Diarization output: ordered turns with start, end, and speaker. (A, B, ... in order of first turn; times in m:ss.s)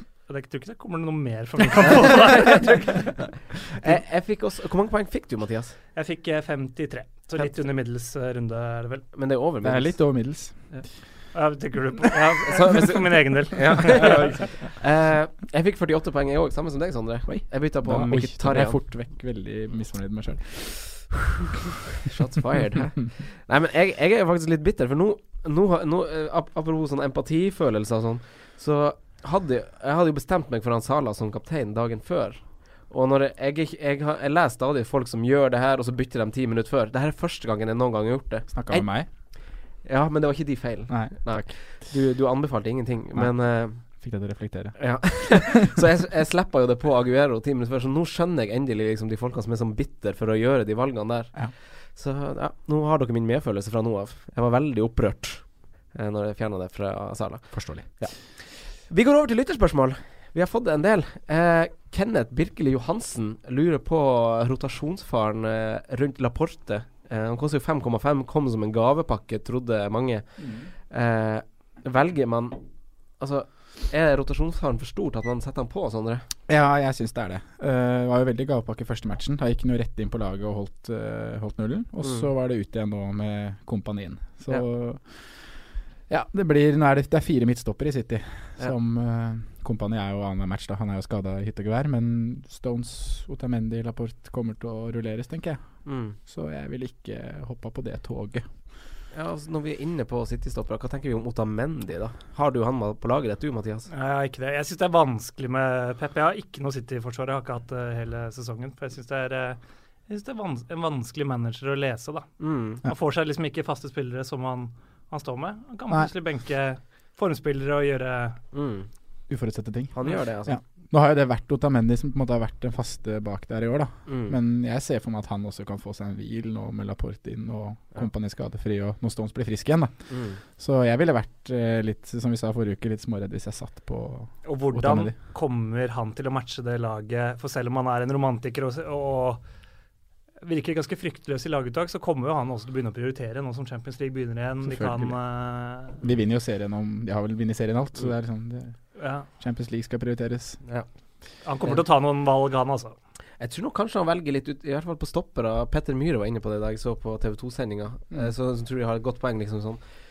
0:00.3-0:03.0 A
0:02.3-0:03.2 B
0:03.7-0:05.8 B
0:05.9-0:09.1 A
0:09.1-0:10.0 B
0:09.6-0:10.6 C
0:11.3-0:14.4 A
0:12.4-0:18.8 B
0:14.0-0:14.3 C
0:17.2-0:21.5 C
0:22.0-0:38.9 B
0:38.5-0:39.1 C
0:39.8-0:43.8 B
0:40.9-0:41.6 C
0:43.2-0:45.7 C
0:44.8-1:12.6 B
0:57.5-0:57.9 C
1:10.4-1:10.7 C
1:13.2-1:16.2 B
1:16.5-1:25.2 C
1:26.1-1:35.6 C
1:35.8-1:36.2 B
1:36.2-1:38.5 C
1:39.1-1:43.9 B
1:43.9-1:58.4 A
1:52.4-1:52.8 B
1:58.5-1:58.9 B
1:59.3-2:09.9 C
1:59.9-2:00.6 B
2:04.1-2:04.3 B
2:10.1-2:10.4 B
2:10.5-2:15.1 C
2:14.4-2:19.4 A
2:20.4-2:26.0 A
2:24.6-2:25.1 C
2:26.0-2:28.7 C
2:29.0-2:29.3 A
2:29.4-2:30.6 C
2:31.4-2:33.0 A
2:33.4-2:39.8 B